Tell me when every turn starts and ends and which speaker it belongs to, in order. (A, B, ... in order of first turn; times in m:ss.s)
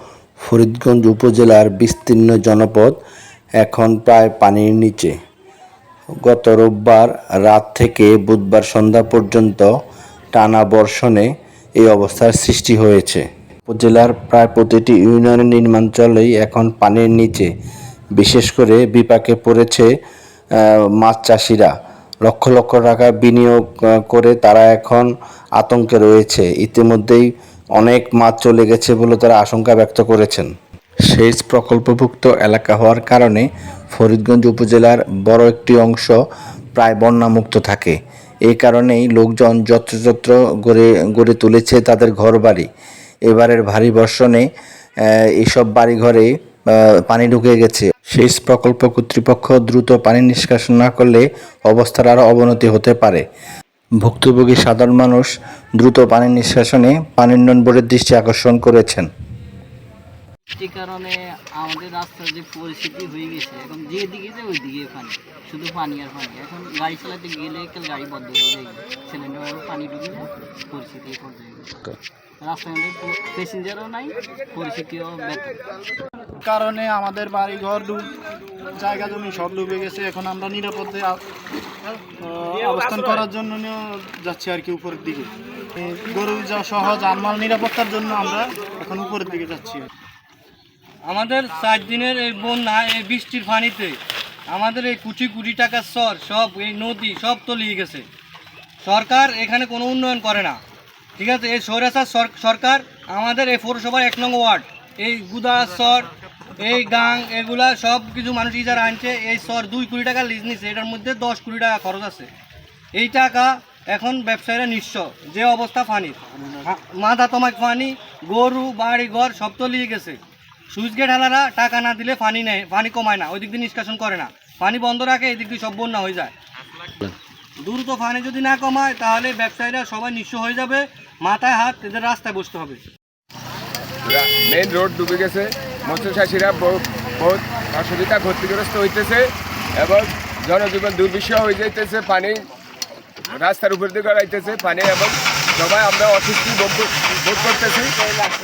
0:00.4-0:03.0 A
0:03.6-0:05.1 A
0:06.2-0:09.7 A
0:10.3-0:11.3 A
0:11.8-0:17.5 A
0:18.2-0:19.9 A
0:21.0-0:21.7 A
0:22.2-0:30.5 A
0:31.1-0:36.1 A
0:36.7-0:42.7 A
0:43.3-0:44.5 A
0:45.4-0:46.3 A
0:47.1-0:53.2 A
0:54.0-0:59.1 A
1:00.6-1:11.9 B
1:12.4-1:15.6 B
1:16.4-1:18.0 C
1:18.8-1:21.2 C
1:22.2-1:29.9 C
1:31.1-1:34.0 D
1:34.5-1:38.0 D
1:38.8-1:40.6 D
1:41.2-1:52.3 D
1:52.9-2:00.2 D
1:56.3-1:56.6 C
2:00.7-2:06.3 D
2:07.6-2:12.8 D
2:14.0-2:22.4 E
2:23.3-2:27.9 E